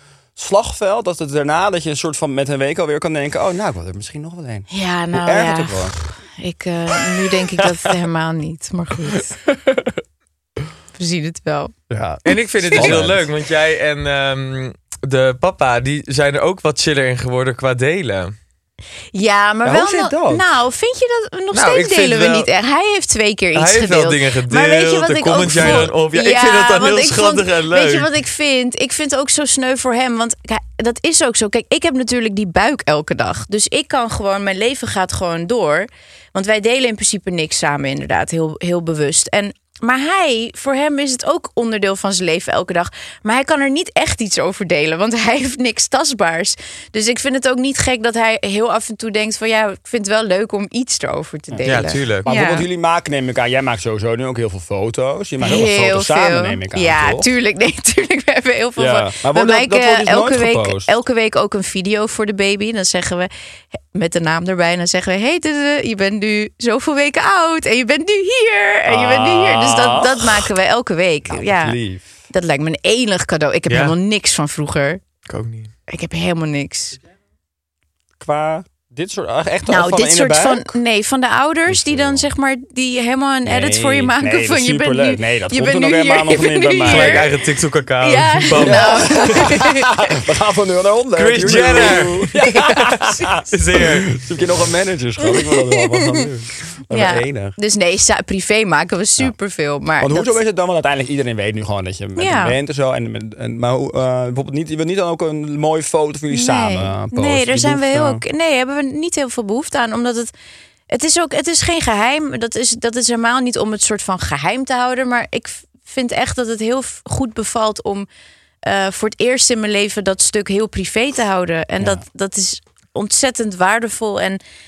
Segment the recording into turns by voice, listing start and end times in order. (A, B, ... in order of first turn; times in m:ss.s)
0:00.4-0:06.0 A
0:04.7-0:09.4 B
0:07.1-0:07.9 A
0:09.5-0:10.0 A
0:10.9-0:11.7 B
0:11.9-0:13.3 A
0:12.2-0:18.3 C
0:12.6-0:13.0 B
0:19.1-0:52.6 B
0:19.6-0:20.4 A
0:21.5-0:22.5 C
0:23.5-0:28.1 C
0:25.5-0:25.8 A
0:51.5-0:57.3 A
0:51.6-0:52.3 C
0:55.4-1:11.8 B
0:58.8-1:00.9 A
1:08.9-1:10.5 A
1:11.2-1:12.2 A
1:12.3-1:15.0 B
1:13.7-1:13.9 C
1:15.3-1:15.7 C
1:15.9-1:17.0 B
1:18.2-1:20.7 A
1:19.7-1:27.3 B
1:21.7-1:22.3 A
1:23.4-1:27.3 A
1:26.8-1:29.5 C
1:28.0-1:29.9 B
1:28.5-1:37.6 A
1:31.2-1:32.4 C
1:33.5-1:34.6 C
1:35.2-1:36.2 B
1:36.9-1:40.4 B
1:40.0-1:48.2 A
1:42.2-1:42.6 B
1:46.3-1:50.3 B
1:50.9-1:58.1 B
1:58.6-2:04.4 B